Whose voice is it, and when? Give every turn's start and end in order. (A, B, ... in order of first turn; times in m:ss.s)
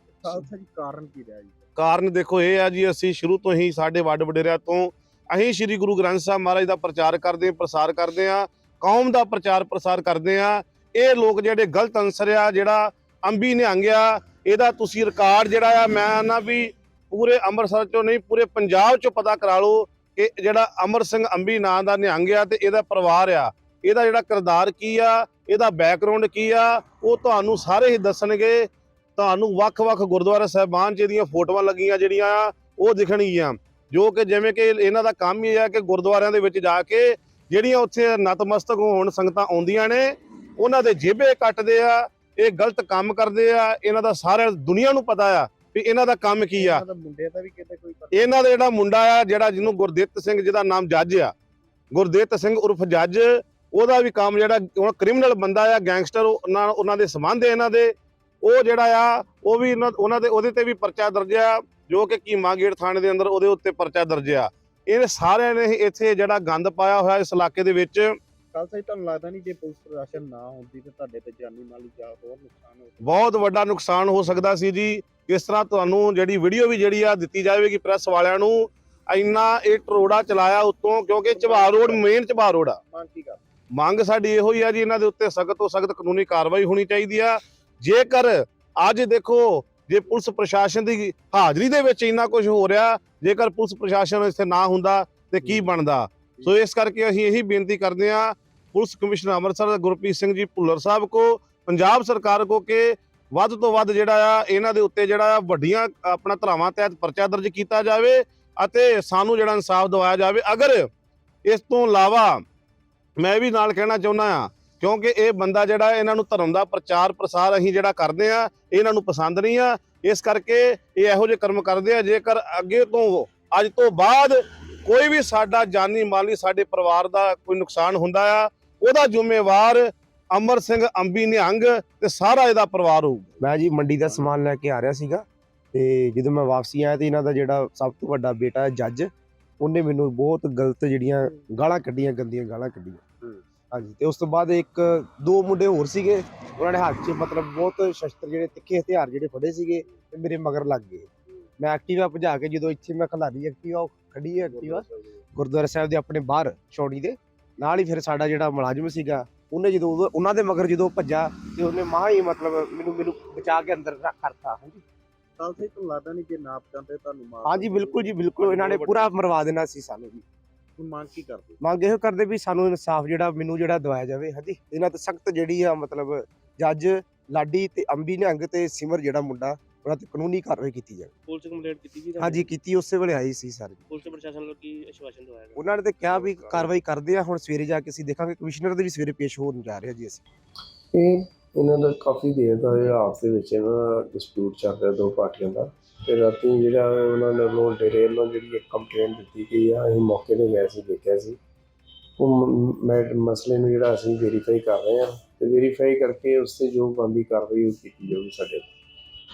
0:00.2-0:01.6 A
0:01.8-0:46.8 B
0:46.6-0:48.4 A
0:48.1-0:51.3 B
0:51.9-1:08.2 B
1:08.5-1:13.1 A
1:13.0-1:22.8 B
1:21.3-1:22.1 A
1:22.8-1:23.4 A
1:23.7-1:50.9 B
1:51.5-1:52.4 B
1:53.2-2:13.3 B
2:13.4-2:14.3 A
2:13.4-2:23.1 C
2:23.7-2:44.8 C
2:34.4-2:35.0 A
2:45.4-2:49.1 A
2:47.4-2:50.2 C
2:50.8-2:51.6 A
2:51.6-3:01.1 C
3:01.3-3:02.5 D
3:02.2-3:03.9 C
3:03.9-3:05.8 D
3:05.6-3:10.2 C
3:06.1-3:06.7 E
3:10.9-3:21.4 E
3:22.2-3:28.7 E